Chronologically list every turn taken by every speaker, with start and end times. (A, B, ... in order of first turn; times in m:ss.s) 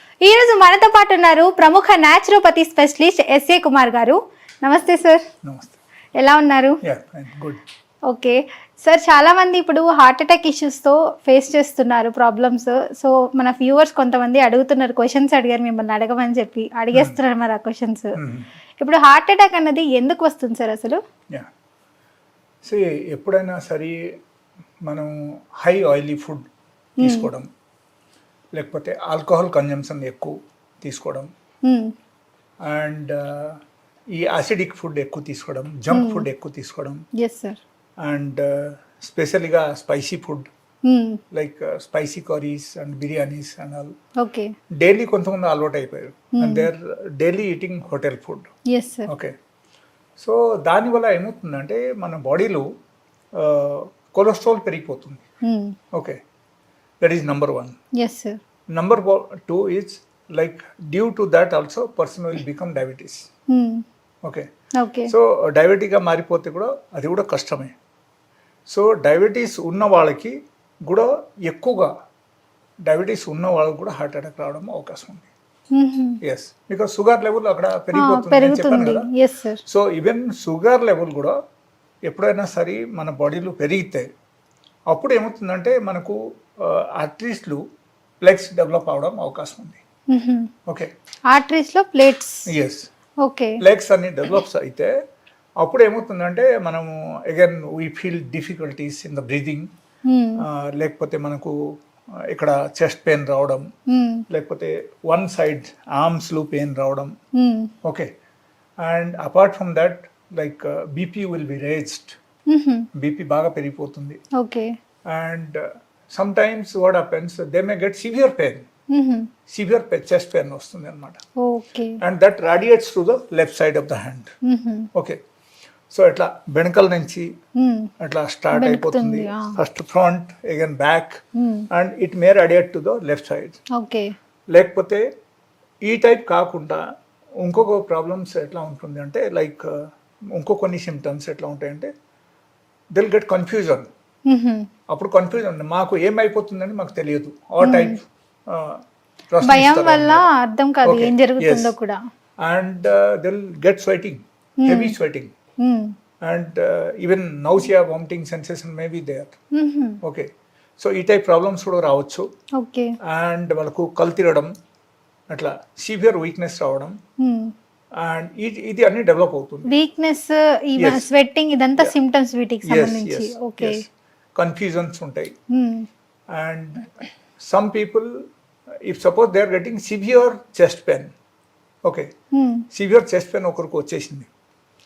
0:00.2-0:05.2 A
0:05.4-0:05.8 B
0:06.2-0:06.8 A
0:06.8-0:07.6 B
0:08.1-0:18.2 A
0:18.2-0:18.5 B
0:18.8-0:21.0 A
0:22.6-0:24.0 B
0:24.9-0:26.4 B
0:27.0-0:27.5 B
0:27.0-0:27.3 A
0:28.6-0:31.3 B
0:31.6-0:31.9 A
0:32.7-0:33.6 B
0:34.1-0:37.0 B
0:35.9-0:36.2 A
0:37.2-0:37.6 A
0:38.0-0:40.5 B
0:40.9-0:41.2 A
0:41.3-0:43.9 B
0:44.2-0:44.5 A
0:44.8-0:48.5 B
0:46.4-0:46.7 A
0:48.7-0:49.1 A
0:49.1-0:49.3 B
0:50.2-0:52.7 B
0:53.4-0:55.2 B
0:55.4-0:55.8 A
0:57.0-0:57.8 B
0:58.0-0:58.4 A
0:58.7-1:03.3 B
1:03.5-1:03.8 A
1:04.8-1:05.1 A
1:05.1-1:07.7 B
1:08.7-1:11.9 B
1:12.9-1:15.3 B
1:15.8-1:16.2 A
1:16.2-1:19.1 B
1:17.9-1:19.6 A
1:19.7-1:21.4 B
1:22.1-1:24.1 B
1:24.9-1:27.6 B
1:28.2-1:29.8 B
1:30.1-1:30.5 A
1:31.3-1:32.5 A
1:32.5-1:32.8 B
1:33.2-1:33.6 A
1:33.6-1:34.9 B
1:35.6-1:39.7 B
1:40.1-1:40.4 A
1:40.4-1:41.6 B
1:42.3-1:43.7 B
1:43.9-1:44.2 A
1:44.3-1:47.1 B
1:47.4-1:47.7 A
1:47.8-1:48.1 B
1:48.8-1:52.2 B
1:52.5-1:52.9 A
1:53.0-1:54.2 B
1:54.4-1:54.7 A
1:55.1-1:58.7 B
1:58.9-1:59.3 A
1:59.5-2:01.2 B
2:01.4-2:02.0 A
2:02.0-2:04.3 B
2:04.4-2:04.9 A
2:05.9-2:07.3 B
2:07.6-2:07.9 A
2:08.0-2:13.6 B
2:08.5-2:09.6 A
2:11.4-2:11.7 A
2:13.8-2:14.1 A
2:14.5-2:15.0 B
2:15.8-2:16.8 B
2:17.4-2:21.9 B
2:22.9-2:23.9 B
2:24.3-2:24.7 A
2:24.9-2:30.3 B
2:27.6-2:28.0 A
2:29.4-2:32.0 A
2:30.8-2:31.7 B
2:32.4-2:35.3 B
2:34.6-2:35.0 A
2:35.6-2:35.9 A
2:36.2-2:39.4 B
2:39.6-2:40.0 A
2:40.0-2:40.3 B
2:40.8-2:42.2 B
2:42.6-2:43.0 A
2:43.0-2:44.5 B
2:45.3-2:47.0 B
2:47.2-2:47.5 A
2:48.0-2:49.7 B
2:49.7-2:53.8 A
2:50.8-2:51.1 B
2:52.6-2:55.3 B
2:55.5-2:55.9 A
2:56.3-2:56.9 B
2:57.4-2:58.2 B
2:58.9-3:01.1 B
3:01.8-3:02.1 B
3:02.3-3:02.6 A
3:02.7-3:04.3 B